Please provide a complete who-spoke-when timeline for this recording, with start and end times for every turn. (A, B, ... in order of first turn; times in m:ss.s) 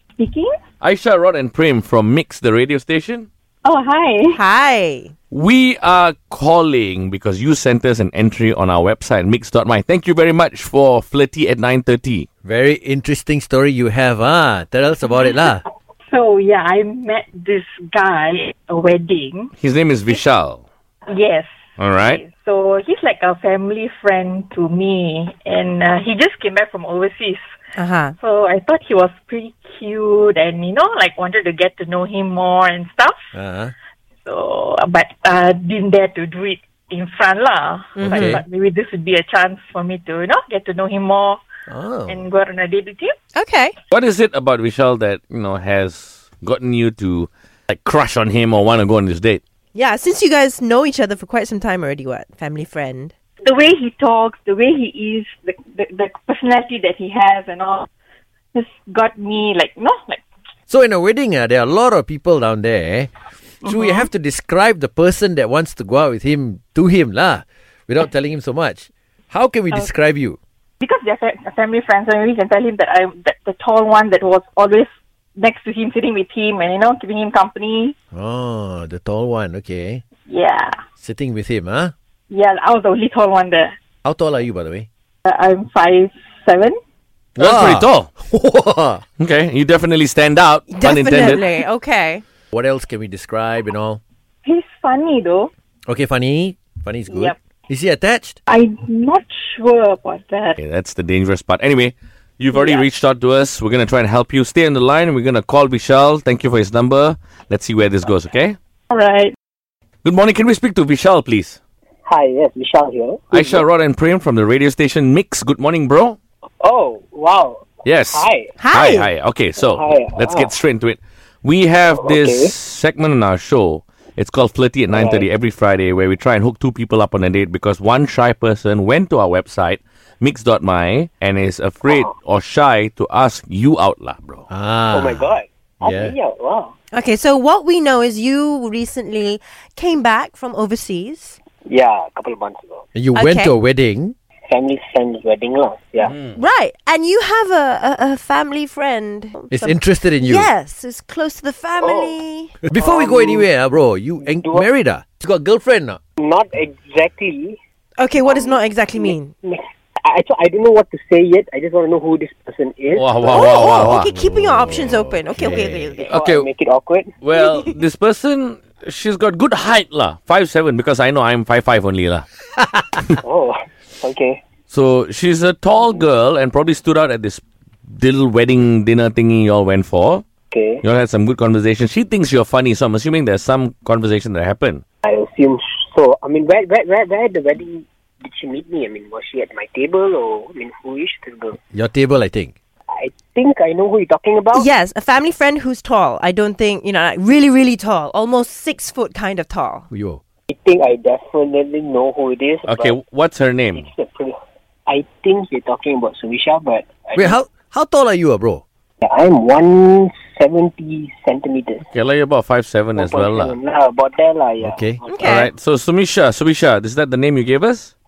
0:00.2-0:00.5 A
0:00.8-0:03.3 B
0:03.6-0:04.4 A
0:04.3-0:05.1 C
0:05.3-0:12.3 B
0:12.4-0:15.6 D
0:16.1-0:19.5 A
0:19.6-0:20.6 B
0:21.1-0:27.4 A
0:21.8-0:22.2 B
0:27.7-0:28.1 C
0:28.2-0:33.2 A
0:33.3-0:33.7 D
0:34.2-0:41.4 A
0:38.0-0:38.3 C
0:38.0-0:38.4 D
0:41.7-0:42.2 D
0:42.1-0:43.1 A
0:43.3-0:43.8 C
0:43.9-0:49.4 B
0:49.7-0:53.1 C
0:53.4-0:57.9 A
0:58.5-1:00.2 A
1:00.7-1:03.1 D
1:03.6-1:10.4 D
1:03.6-1:04.1 A
1:10.8-1:17.9 A
1:18.1-1:20.0 D
1:20.3-1:20.8 A
1:21.0-1:21.9 D
1:22.3-1:23.7 A
1:24.0-1:24.9 D
1:25.2-1:26.8 A
1:27.4-1:29.0 D
1:27.4-1:28.1 B
1:29.2-1:31.5 B
1:30.7-1:32.2 C
1:32.5-1:34.0 D
1:34.4-1:35.5 A
1:35.9-1:38.4 D
1:37.1-1:37.4 A
1:38.5-1:40.6 A
1:40.6-1:48.6 B
1:42.5-1:42.9 A
1:48.9-1:49.3 A
1:50.0-1:51.6 B
1:52.0-1:53.6 E
1:53.3-1:56.2 B
1:56.6-1:58.5 E
1:57.8-2:14.5 B
1:58.6-1:59.1 C
1:59.6-2:00.5 E
2:01.9-2:02.5 E
2:04.9-2:05.3 E
2:14.5-2:15.2 D
2:14.9-2:16.7 E
2:15.8-2:16.1 D
2:16.9-2:21.4 C
2:21.6-2:22.8 E
2:22.9-2:24.1 D
2:23.1-2:23.5 C
2:24.5-2:26.1 E
2:26.0-2:26.4 B
2:26.3-2:29.8 C
2:29.5-2:30.5 D
2:30.3-2:32.6 C
2:31.8-2:32.2 E
2:32.6-2:36.0 D
2:32.7-2:33.4 E
2:34.2-2:34.7 E
2:36.2-2:37.6 E
2:38.0-2:39.3 C
2:38.2-2:43.8 E
2:42.9-2:44.1 B
2:43.3-2:46.0 C
2:43.8-2:46.0 D
2:46.0-2:47.1 E
2:46.1-2:46.4 B
2:47.2-2:52.2 B
2:53.2-2:54.4 E
2:54.7-3:00.2 B
3:00.5-3:00.8 E
3:00.8-3:04.8 B
3:05.0-3:11.6 E
3:11.7-3:12.5 D
3:12.9-3:14.6 E
3:14.5-3:19.8 C
3:19.9-3:20.2 D
3:20.5-3:23.0 E
3:22.7-3:23.8 B
3:23.7-3:24.3 E
3:24.9-3:27.3 E
3:27.1-3:28.6 D
3:29.0-3:31.8 E
3:31.9-3:33.6 B
3:32.9-3:35.4 E
3:34.6-3:35.0 D
3:35.1-3:35.5 C
3:35.2-3:37.9 B